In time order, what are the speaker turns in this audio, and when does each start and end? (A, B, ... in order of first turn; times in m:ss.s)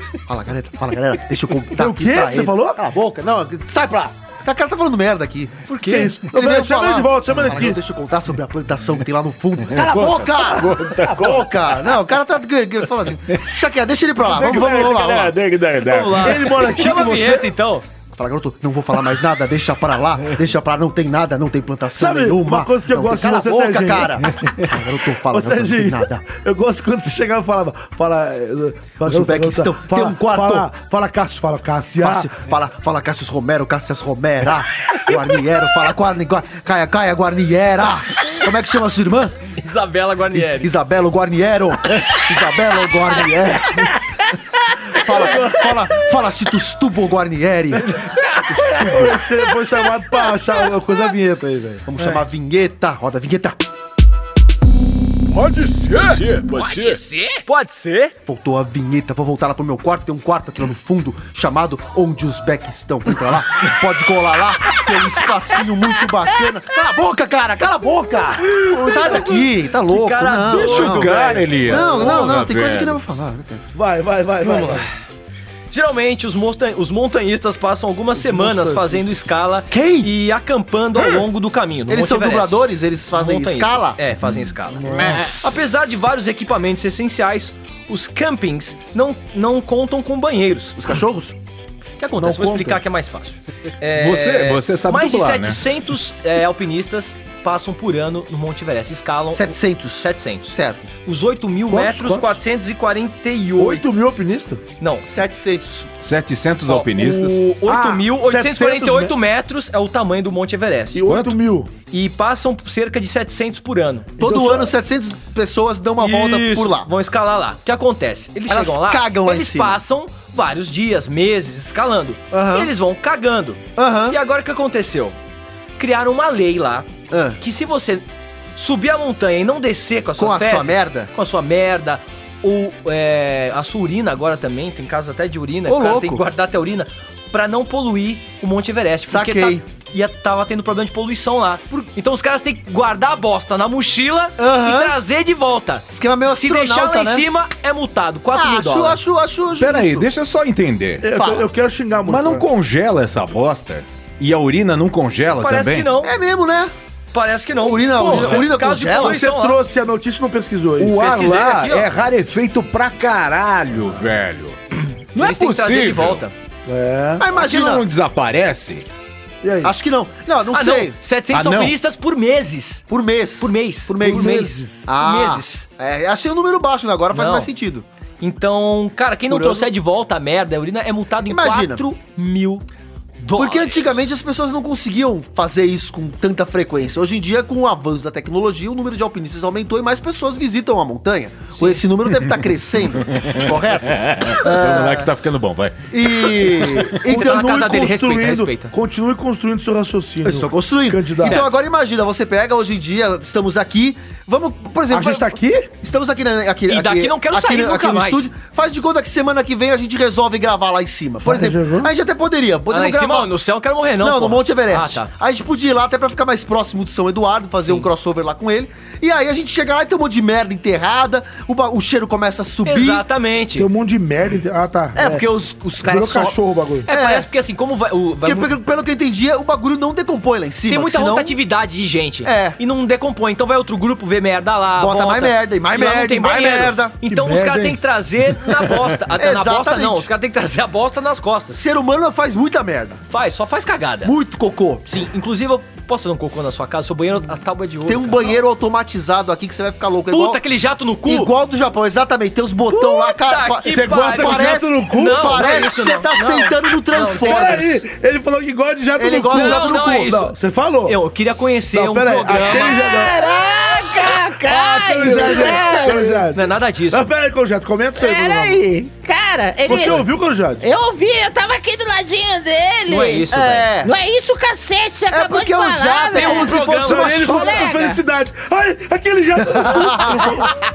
0:00.3-0:05.7 A
0:01.7-0:02.8 B
0:05.7-0:06.1 C
0:05.8-0:07.8 B
0:06.3-0:15.4 A
0:09.7-0:12.0 D
0:14.2-0:16.7 D
0:15.8-0:17.8 C
0:16.2-0:17.5 B
0:18.1-0:26.2 A
0:21.9-0:24.3 B
0:25.1-0:32.3 B
0:29.0-0:30.7 A
0:32.0-0:39.4 A
0:39.6-0:40.7 C
0:40.3-0:44.0 A
0:44.9-0:49.1 A
0:45.2-0:45.5 B
0:48.7-0:51.9 B
0:51.9-0:53.6 A
0:55.3-0:57.0 D
0:56.5-0:58.1 C
0:58.3-1:13.6 A
1:08.6-1:09.5 B
1:08.9-1:12.2 C
1:10.5-1:13.0 D
1:13.7-1:14.9 B
1:14.4-1:14.9 C
1:15.7-1:30.8 C
1:18.2-1:19.1 B
1:19.7-1:20.1 A
1:21.9-1:24.0 A
1:24.7-1:25.3 B
1:24.9-1:25.3 D
1:25.1-1:25.6 A
1:30.8-1:31.4 A
1:32.0-1:40.5 C
1:32.2-1:32.8 B
1:34.0-1:35.6 D
1:39.3-1:40.9 A
1:41.0-1:43.8 C
1:41.7-1:42.4 B
1:43.6-1:44.6 B
1:44.8-1:45.1 C
1:45.0-1:45.9 A
1:46.0-1:47.4 D
1:46.7-1:51.0 C
1:47.6-1:49.2 B
1:50.9-1:51.7 B
1:51.1-1:51.4 D
1:51.9-1:54.1 C
1:54.2-1:54.8 B
1:54.2-1:56.9 A
1:56.0-2:05.2 C
1:58.5-1:59.8 A
2:02.3-2:02.7 A
2:03.8-2:04.2 A
2:05.8-2:08.0 C
2:07.1-2:07.4 A
2:08.6-2:29.0 C
2:10.2-2:11.1 A
2:15.7-2:16.2 A
2:19.0-2:19.6 A
2:24.4-2:25.0 A
2:25.9-2:27.3 A
2:28.3-2:30.1 A
2:29.6-2:31.1 D
2:31.0-2:32.5 B
2:31.1-2:31.5 A
2:32.1-2:35.9 D
2:35.4-2:36.1 C
2:36.0-2:36.7 A
2:37.1-2:39.6 C
2:37.3-2:39.2 A
2:38.0-2:38.4 D
2:39.0-2:41.1 B
2:40.8-2:44.6 D
2:41.0-2:41.9 C
2:45.1-2:46.2 D
2:45.2-2:46.3 C
2:46.7-2:47.2 B
2:47.2-2:47.8 A
2:47.3-2:48.9 D
2:49.4-2:49.7 B
2:49.6-2:50.9 A
2:50.5-2:52.8 C
2:51.3-2:51.8 D
2:52.9-2:57.9 A
2:53.4-2:55.6 C
2:54.0-2:54.9 B
2:57.1-2:57.5 C
2:58.2-3:02.6 C
2:59.3-2:59.7 A
3:01.3-3:01.8 A
3:03.2-3:04.0 C
3:03.4-3:15.1 A
3:13.2-3:16.8 D
3:15.9-3:17.4 A
3:16.9-3:18.7 C
3:17.0-3:21.4 B
3:20.2-3:33.3 A
3:21.2-3:21.5 C
3:24.9-3:25.7 B
3:26.7-3:28.3 C
3:31.2-3:31.9 B
3:32.7-3:35.1 C
3:34.0-3:43.0 A
3:42.6-3:43.7 C
3:43.6-3:45.3 B
3:45.0-3:47.3 A
3:45.8-3:46.9 B
3:46.9-3:48.5 C
3:48.2-3:51.4 A
3:50.7-4:01.6 C
3:52.2-3:52.6 A
3:54.8-3:57.0 A
3:57.0-3:57.8 B
3:59.2-4:00.1 A
4:01.6-4:03.0 A
4:03.1-4:04.1 C
4:04.0-4:04.8 A
4:04.9-4:08.4 C
4:07.9-4:10.4 A
4:10.1-4:11.3 C
4:11.1-4:17.7 A
4:12.7-4:17.8 C
4:13.6-4:15.5 B
4:17.1-4:21.0 B
4:19.0-4:20.1 A
4:19.3-4:20.4 C
4:20.9-4:22.8 C
4:21.7-4:23.4 B
4:22.4-4:26.3 E
4:24.1-4:28.6 B
4:26.3-4:27.1 C
4:28.0-4:30.1 E
4:29.6-4:30.6 B
4:30.6-4:36.6 E
4:32.9-4:33.9 A
4:32.9-4:33.7 C
4:35.1-4:37.6 A
4:36.1-4:37.8 C
4:36.8-4:40.5 B
4:37.2-4:38.0 E
4:39.6-4:40.5 A